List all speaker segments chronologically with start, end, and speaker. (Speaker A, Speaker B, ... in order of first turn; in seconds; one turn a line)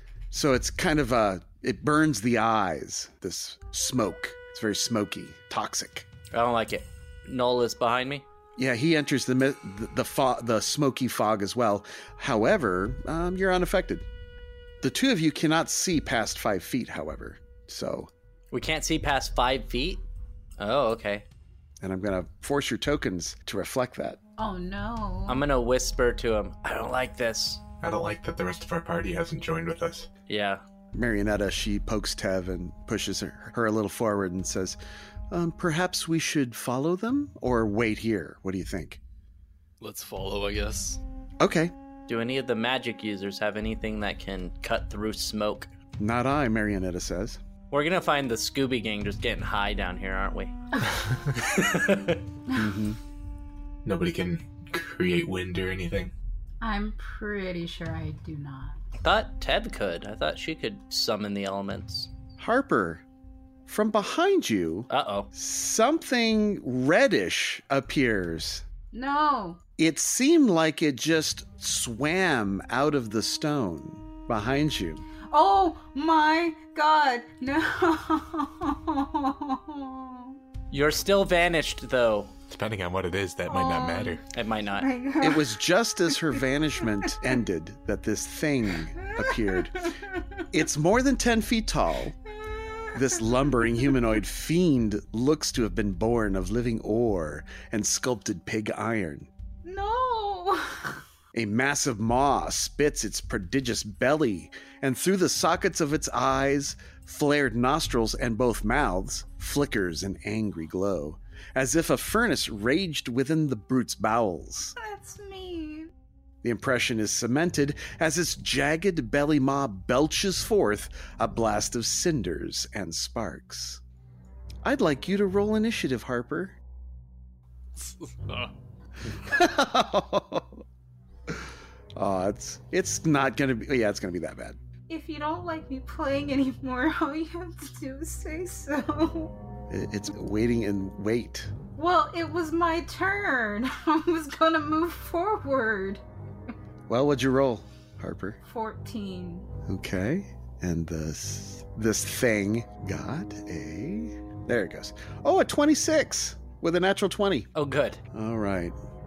Speaker A: 0.3-6.1
Speaker B: 6.3-8.2
Speaker A: 8.6-14.1
Speaker A: 14.8-18.1
Speaker B: 18.5-20.1
Speaker B: 20.6-21.3
Speaker A: 21.8-24.2
Speaker C: 24.4-25.5
Speaker B: 25.3-27.6
Speaker D: 27.8-30.1
Speaker B: 30.3-30.6
Speaker A: 30.9-34.8
Speaker A: 35.3-39.0
Speaker E: 39.8-41.0
Speaker A: 41.4-41.7
Speaker B: 42.1-45.7
Speaker A: 46.0-47.4
Speaker B: 47.7-50.5
Speaker B: 51.3-52.2
Speaker A: 52.5-53.0
Speaker D: 53.9-56.1
Speaker C: 56.6-58.8
Speaker B: 59.0-62.1
Speaker A: 62.4-63.0
Speaker A: 63.7-68.7
Speaker B: 64.9-65.3
Speaker C: 68.9-69.6
Speaker A: 69.8-75.1
Speaker C: 75.3-80.4
Speaker B: 80.7-82.3
Speaker D: 82.5-84.2
Speaker C: 83.5-84.2
Speaker B: 84.3-84.9
Speaker C: 84.8-86.4
Speaker A: 85.2-89.9
Speaker C: 89.3-90.2
Speaker A: 90.5-92.2
Speaker A: 92.9-99.3
Speaker C: 99.6-101.0
Speaker A: 101.3-114.8
Speaker C: 114.8-115.9
Speaker A: 116.4-123.8
Speaker A: 124.6-126.6
Speaker E: 127.8-128.5
Speaker A: 129.1-130.6
Speaker A: 131.3-134.6
Speaker C: 134.9-139.3
Speaker A: 139.7-141.5
Speaker C: 141.8-146.0
Speaker A: 146.9-148.4
Speaker C: 148.5-149.5
Speaker A: 149.7-157.5
Speaker B: 157.6-158.0
Speaker A: 158.1-158.8